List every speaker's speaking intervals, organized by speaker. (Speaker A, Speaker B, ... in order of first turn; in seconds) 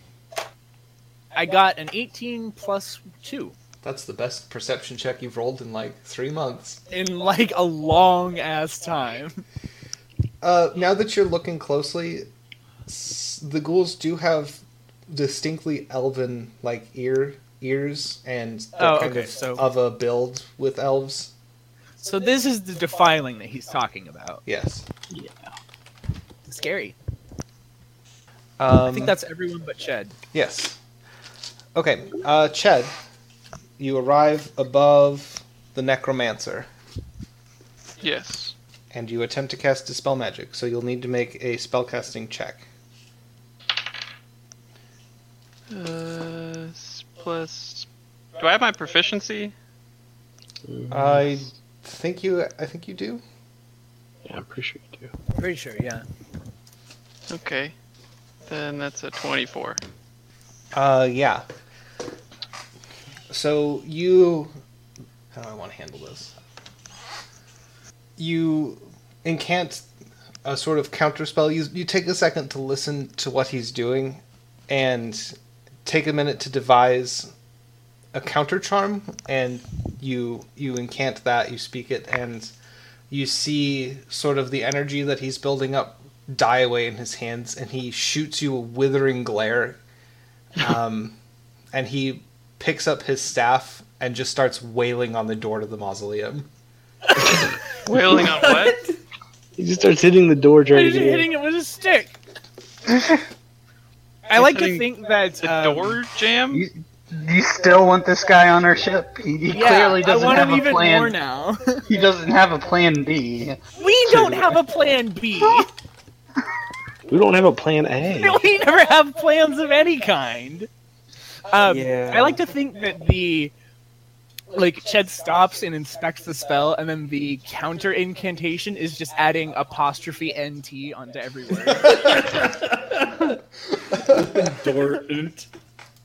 Speaker A: 1.3-3.5, 6.9-9.4, 18.8-19.6, 22.0-24.4, 26.5-26.9, 28.9-30.1, 55.4-56.1, 100.7-102.2, 104.3-106.0, 109.5-111.8, 113.8-115.7, 118.1-120.7, 121.5-123.5, 124.5-132.0
Speaker B: 3.8-6.8, 10.4-12.3, 12.9-21.3, 24.4-24.9, 28.6-29.1, 30.3-30.8, 31.7-32.9, 33.8-36.7, 38.9-42.6, 50.9-53.2, 60.7-61.5, 63.3-64.5, 65.3-66.3, 68.2-69.8, 70.4-77.3, 78.1-82.5, 83.1-89.8, 90.5-91.2, 91.7-96.5
Speaker C: 38.0-38.5, 45.7-47.9, 48.4-49.5, 57.3-57.7, 58.5-59.8, 97.8-98.8, 104.3-106.7
Speaker D: 50.7-51.4, 54.2-55.1, 99.6-101.3, 114.1-114.4, 117.1-118.4
Speaker E: 97.9-99.0, 121.7-122.4, 131.9-133.4, 134.0-135.5
Speaker F: 106.5-111.2, 111.8-113.6